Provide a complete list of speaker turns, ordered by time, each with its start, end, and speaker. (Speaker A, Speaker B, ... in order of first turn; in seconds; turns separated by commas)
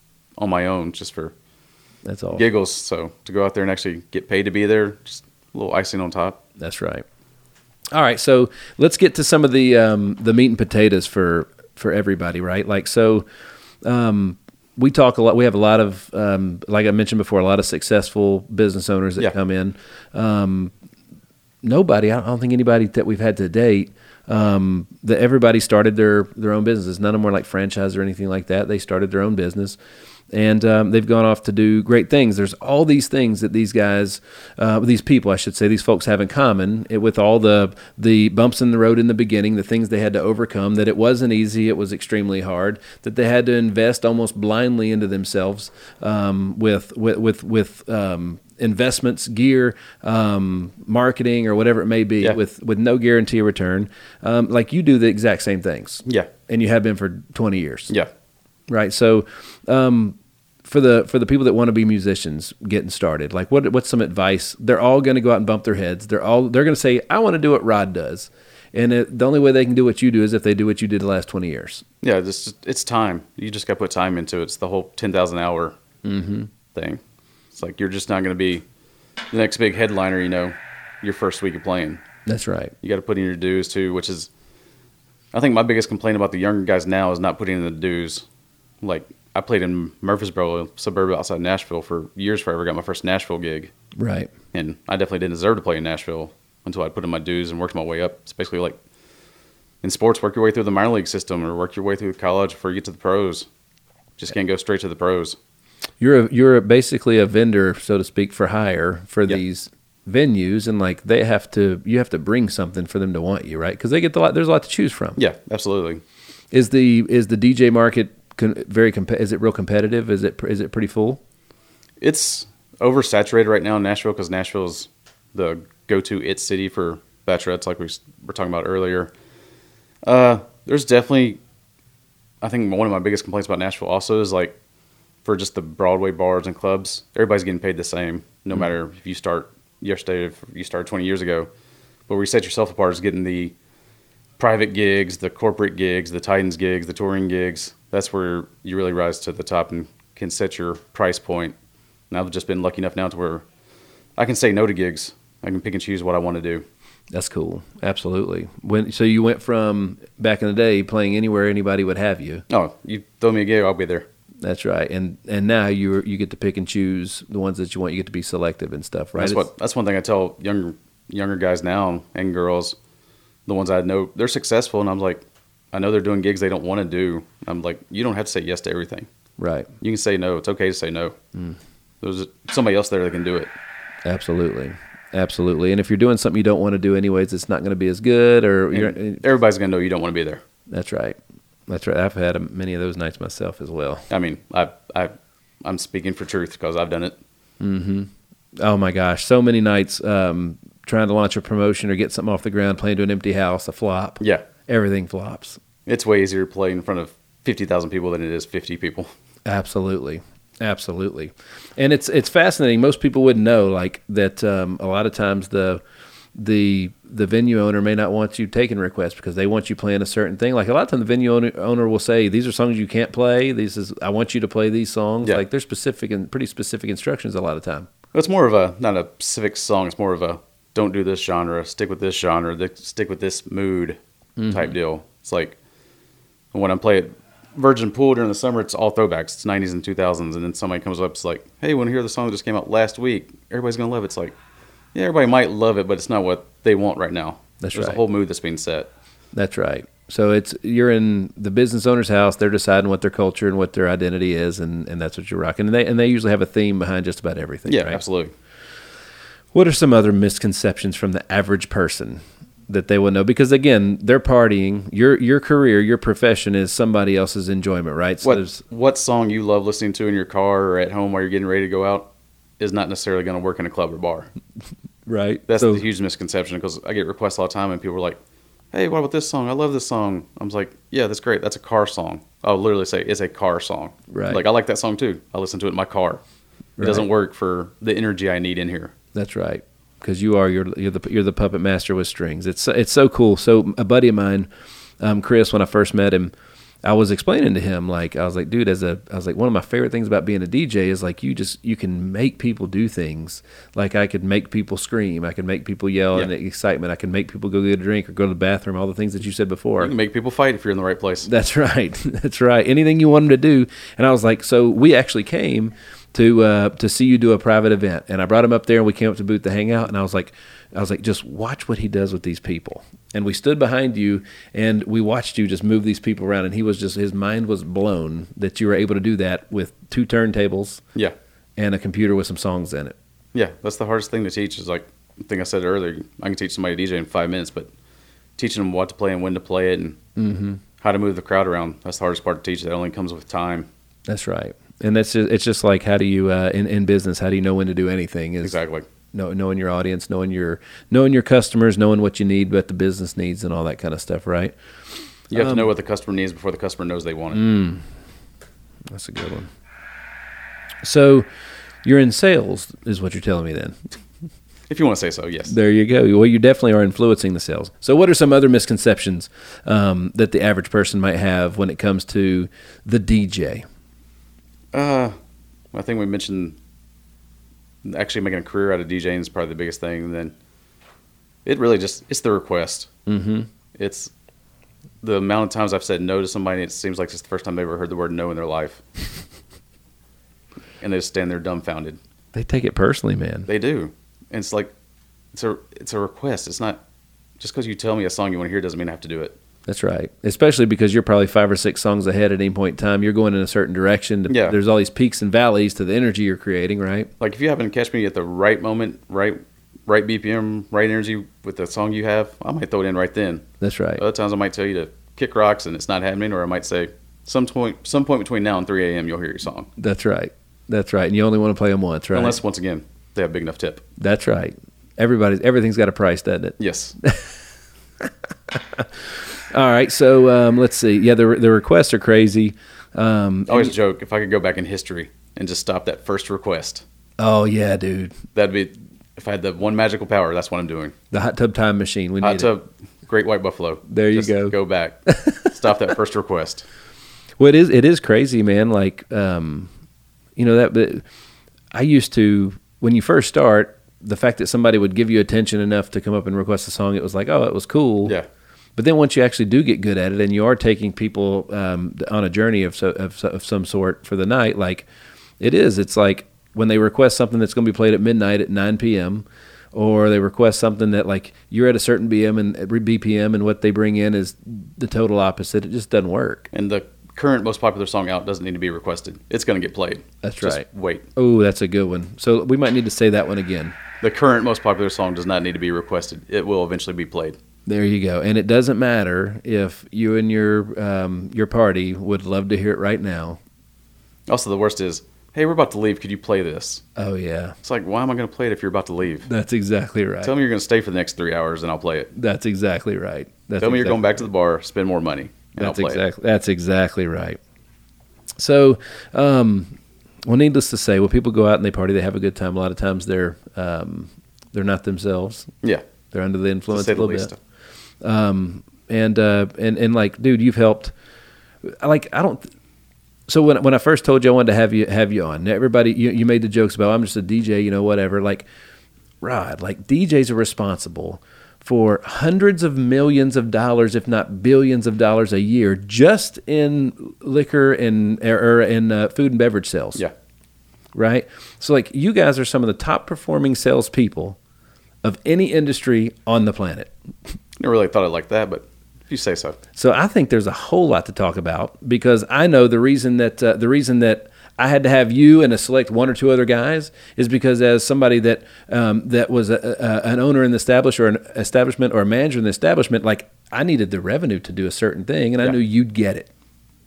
Speaker A: 0.4-1.3, Speaker B: 2.0-2.4, Speaker A: 2.3-6.4, Speaker B: 6.6-7.0, Speaker B: 7.9-13.2, Speaker B: 13.8-20.7, Speaker B: 21.6-29.8, Speaker B: 30.3-57.9, Speaker A: 56.0-56.3, Speaker B: 58.7-71.8, Speaker A: 72.0-75.8, Speaker B: 76.0-76.5, Speaker A: 76.7-77.0, Speaker A: 77.5-78.6, Speaker A: 79.3-82.0, Speaker B: 82.2-82.7, Speaker A: 82.8-84.3, Speaker A: 85.3-88.2, Speaker A: 88.8-93.7, Speaker B: 94.0-94.3, Speaker A: 94.5-98.8, Speaker A: 99.8-103.5, Speaker A: 104.2-105.4, Speaker B: 106.0-115.2, Speaker A: 115.2-116.0, Speaker B: 116.5-121.2, Speaker A: 122.0-129.1, Speaker A: 130.0-131.4, Speaker A: 132.4-134.6, Speaker A: 135.2-141.5, Speaker A: 142.1-143.5, Speaker A: 144.4-151.5, Speaker A: 152.1-153.4, Speaker A: 154.2-156.6, Speaker B: 157.1-162.4, Speaker A: 162.5-164.1, Speaker B: 164.4-169.4, Speaker A: 169.2-172.8, Speaker A: 173.4-179.1, Speaker B: 179.4-179.7, Speaker A: 179.8-181.2, Speaker A: 182.0-183.5, Speaker B: 184.0-189.2, Speaker A: 188.7-190.4, Speaker B: 190.7-191.2, Speaker B: 191.7-194.1, Speaker A: 194.1-197.2, Speaker B: 197.6-205.6, Speaker A: 204.2-204.4, Speaker A: 205.8-209.1, Speaker B: 209.4-215.8, Speaker B: 216.3-227.9, Speaker A: 228.1-234.0, Speaker B: 234.4-234.7, Speaker A: 234.5-235.6, Speaker A: 236.5-244.3, Speaker A: 244.9-248.9, Speaker B: 247.6-248.0, Speaker B: 249.3-258.0, Speaker A: 257.7-258.3, Speaker B: 259.5-268.6, Speaker A: 268.2-274.3, Speaker B: 275.1-275.8, Speaker A: 275.5-278.2, Speaker A: 278.7-286.2, Speaker B: 284.1-284.4, Speaker B: 286.8-287.1, Speaker A: 286.8-288.9, Speaker B: 289.1-294.5, Speaker B: 295.0-296.3, Speaker B: 296.8-309.9, Speaker A: 309.8-311.3, Speaker B: 311.2-330.8, Speaker B: 331.6-332.9, Speaker A: 333.3-337.7, Speaker A: 338.4-340.0, Speaker B: 340.2-340.6, Speaker A: 340.8-343.7, Speaker B: 344.1-348.6, Speaker A: 348.4-348.9, Speaker B: 349.1-354.5, Speaker A: 355.3-357.4, Speaker B: 355.3-355.7, Speaker B: 357.3-357.8, Speaker B: 358.9-359.5, Speaker B: 360.8-361.3, Speaker B: 361.8-363.8, Speaker A: 364.7-365.5, Speaker B: 365.5-373.6, Speaker A: 374.7-375.1, Speaker A: 375.7-376.6, Speaker A: 377.8-380.3, Speaker A: 381.4-382.9, Speaker B: 383.1-383.5, Speaker A: 383.7-384.1, Speaker A: 385.0-388.8, Speaker A: 390.8-392.0, Speaker B: 392.3-393.5, Speaker A: 393.5-394.7, Speaker A: 395.3-396.8, Speaker A: 397.4-399.3, Speaker B: 399.7-407.1, Speaker A: 404.3-404.6, Speaker A: 407.2-413.4, Speaker B: 413.6-414.0, Speaker A: 414.0-419.7, Speaker B: 419.8-422.4, Speaker A: 422.1-423.8, Speaker B: 424.0-427.3, Speaker A: 426.6-426.9, Speaker B: 428.0-433.7, Speaker A: 433.5-436.8, Speaker B: 437.2-438.2, Speaker A: 438.3-440.9, Speaker B: 441.1-442.5, Speaker A: 442.2-446.6, Speaker B: 443.9-444.6, Speaker B: 445.1-445.5, Speaker B: 447.4-449.7, Speaker B: 450.4-451.0, Speaker B: 451.7-458.1, Speaker B: 458.8-464.9, Speaker B: 465.4-476.5, Speaker A: 476.5-481.1, Speaker B: 480.2-483.8, Speaker A: 484.0-487.4, Speaker B: 487.6-493.4, Speaker A: 494.3-496.8, Speaker B: 496.9-497.6, Speaker A: 497.6-499.3, Speaker B: 499.2-500.3, Speaker A: 500.2-502.1, Speaker B: 502.1-504.2, Speaker A: 503.6-506.0, Speaker B: 505.6-507.4, Speaker B: 508.4-515.5, Speaker B: 516.1-517.3, Speaker A: 516.7-517.4, Speaker B: 518.0-520.9, Speaker B: 521.6-522.5, Speaker B: 523.3-528.5, Speaker B: 529.2-540.0, Speaker B: 540.9-544.4, Speaker B: 545.0-546.9, Speaker A: 547.6-549.6, Speaker B: 549.8-566.3